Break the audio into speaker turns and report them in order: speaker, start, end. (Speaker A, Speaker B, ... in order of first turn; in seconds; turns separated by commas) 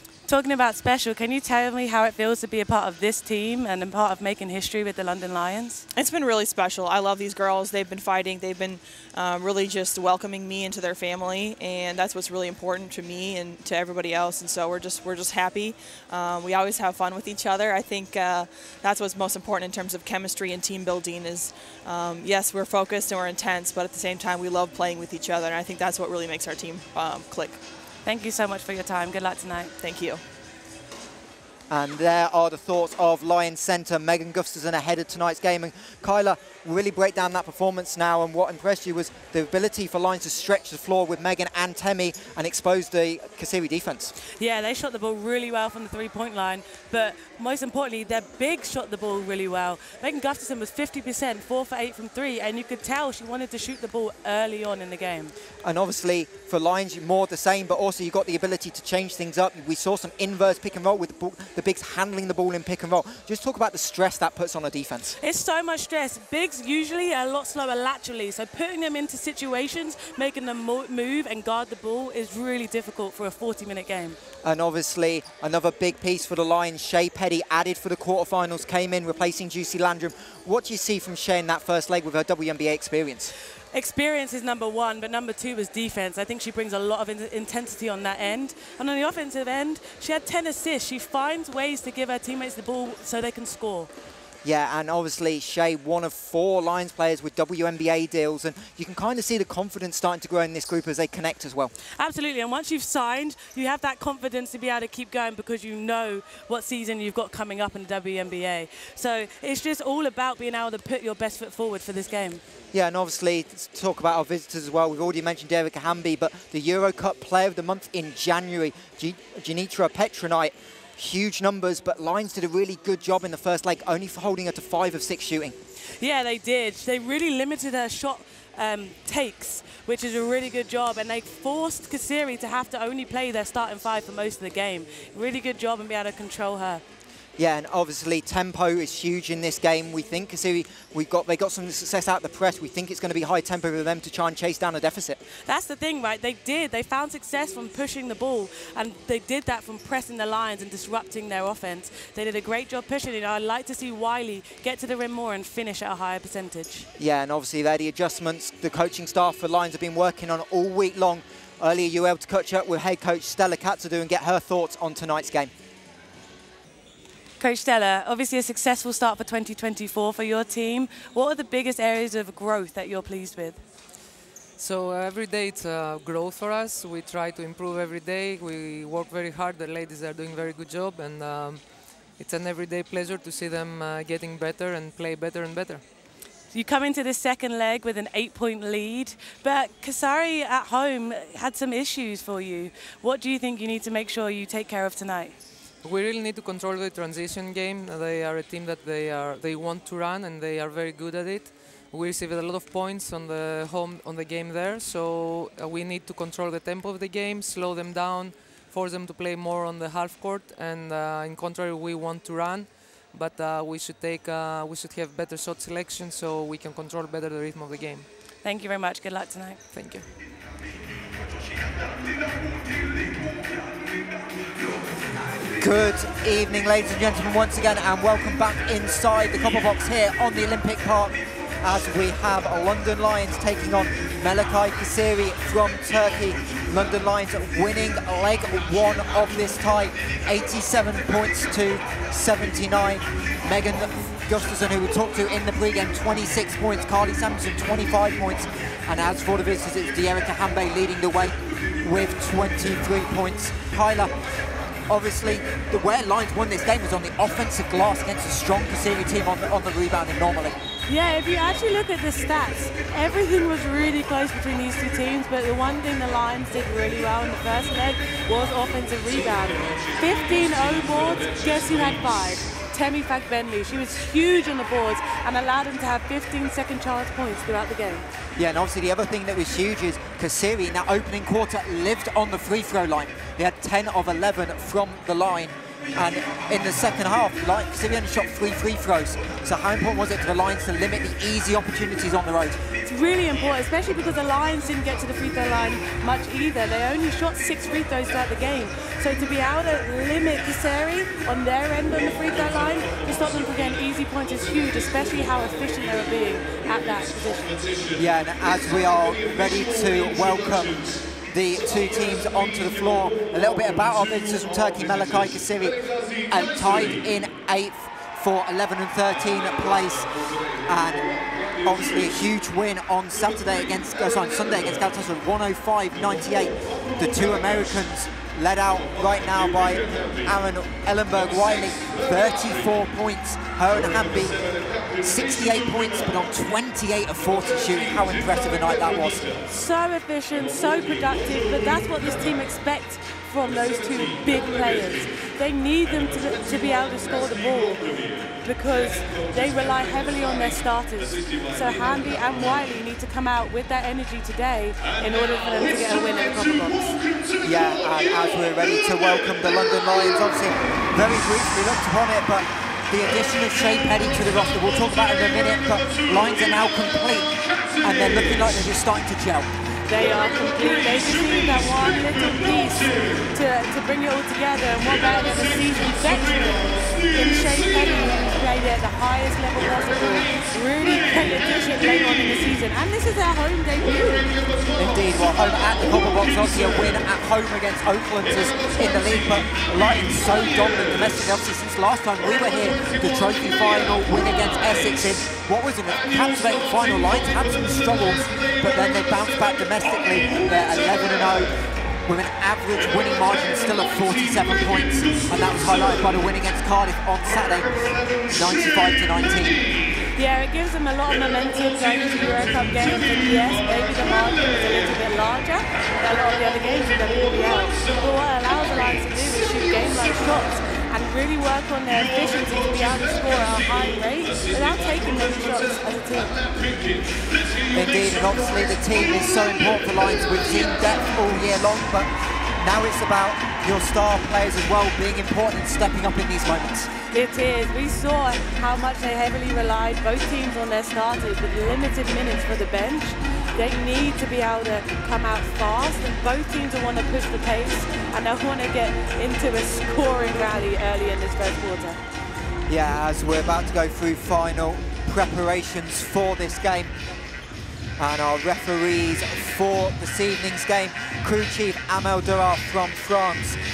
Speaker A: 0.3-5.8, Speaker B: 5.9-27.6, Speaker A: 28.0-29.7, Speaker B: 29.8-30.2, Speaker C: 31.7-44.1, Speaker A: 44.4-55.3, Speaker C: 55.6-65.2, Speaker A: 65.2-74.2, Speaker C: 74.4-83.3, Speaker A: 83.7-93.9, Speaker C: 94.4-101.7, Speaker A: 102.0-112.4, Speaker C: 112.7-125.6, Speaker A: 126.0-136.8, Speaker C: 137.4-145.2, Speaker A: 145.5-156.9, Speaker C: 157.0-165.5, Speaker A: 167.4-173.6, Speaker D: 174.6-181.6, Speaker D: 182.2-185.8, Speaker A: 186.5-195.3, Speaker D: 195.8-218.1, Speaker A: 218.4-219.6, Speaker D: 219.7-220.1, Speaker C: 225.6-254.1, Speaker C: 254.9-260.6, Speaker A: 260.9-278.1, Speaker C: 278.4-292.6, Speaker A: 292.8-307.7, Speaker C: 307.9-334.4, Speaker C: 334.9-339.3, Speaker A: 339.5-357.0, Speaker C: 357.4-369.5, Speaker A: 369.9-384.4, Speaker C: 384.8-409.6, Speaker A: 410.1-426.4, Speaker C: 427.7-436.9, Speaker A: 437.1-452.0, Speaker C: 452.7-456.9, Speaker C: 458.0-463.6